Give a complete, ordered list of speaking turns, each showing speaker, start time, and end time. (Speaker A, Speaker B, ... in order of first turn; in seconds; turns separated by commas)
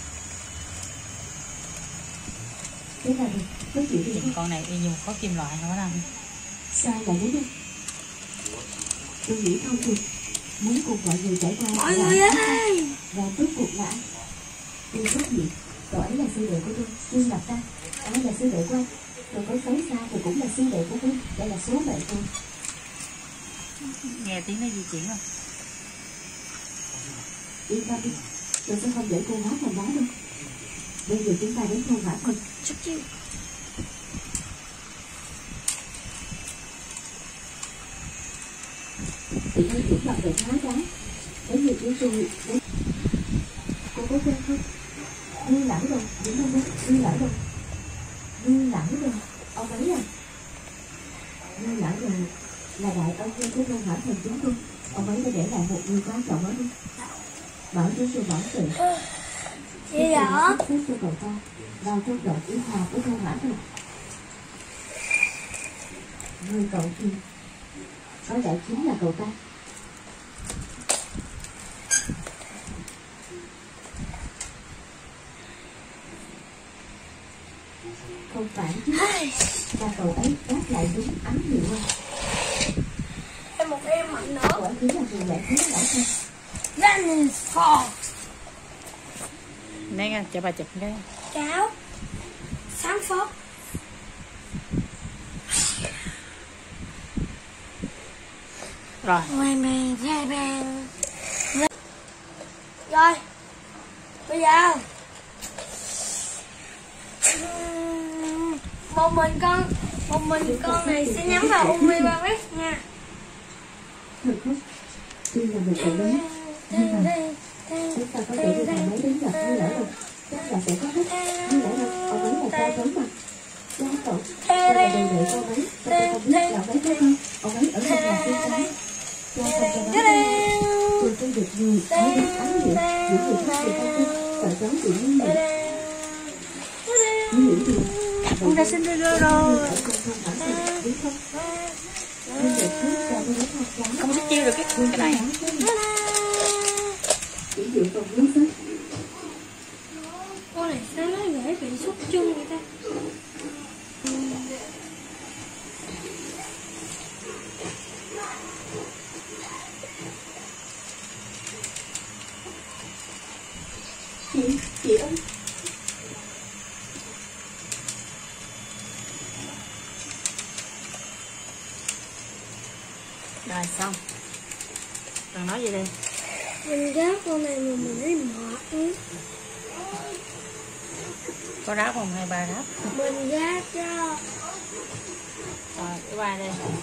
Speaker A: 3.0-4.3, Speaker B: 4.1-6.1, Speaker A: 6.7-7.5, Speaker A: 9.2-10.0, Speaker A: 10.6-14.0, Speaker C: 11.7-13.0, Speaker A: 14.9-22.3, Speaker B: 23.8-25.2, Speaker A: 27.7-30.1, Speaker A: 31.0-32.4, Speaker C: 32.6-33.1, Speaker A: 39.5-40.9, Speaker A: 41.5-42.6, Speaker A: 43.9-44.6, Speaker A: 45.3-47.4, Speaker A: 48.4-50.1, Speaker A: 51.5-56.7, Speaker A: 57.7-58.8, Speaker C: 58.8-59.3, Speaker C: 59.9-60.6, Speaker A: 59.9-63.6, Speaker A: 66.4-67.2, Speaker A: 68.2-69.3, Speaker A: 78.3-79.0, Speaker C: 78.9-79.5, Speaker A: 79.7-81.9, Speaker C: 83.5-84.6, Speaker A: 84.5-86.1, Speaker C: 86.8-88.1, Speaker B: 89.9-91.0, Speaker C: 91.3-91.7, Speaker C: 92.7-93.3, Speaker B: 99.0-99.3, Speaker C: 99.3-100.9, Speaker C: 102.9-103.2, Speaker C: 104.2-104.8, Speaker C: 107.2-112.8, Speaker A: 110.3-112.2, Speaker A: 114.2-114.6, Speaker A: 115.3-117.1, Speaker C: 115.8-119.9, Speaker A: 117.9-123.1, Speaker C: 121.1-122.9, Speaker A: 123.8-128.7, Speaker C: 124.4-127.0, Speaker C: 127.8-128.7, Speaker A: 129.3-135.4, Speaker C: 129.4-131.1, Speaker C: 131.9-134.5, Speaker C: 135.2-138.3, Speaker A: 137.3-141.2, Speaker B: 138.4-139.8, Speaker C: 140.4-143.2, Speaker A: 142.3-144.2, Speaker B: 144.0-145.3, Speaker A: 144.7-145.7, Speaker C: 145.6-146.8, Speaker A: 147.5-148.5, Speaker C: 150.5-152.6, Speaker A: 164.3-165.2, Speaker B: 173.4-174.0, Speaker B: 175.3-175.9, Speaker C: 176.6-179.0, Speaker B: 181.6-182.7, Speaker C: 182.9-184.2, Speaker B: 185.7-186.6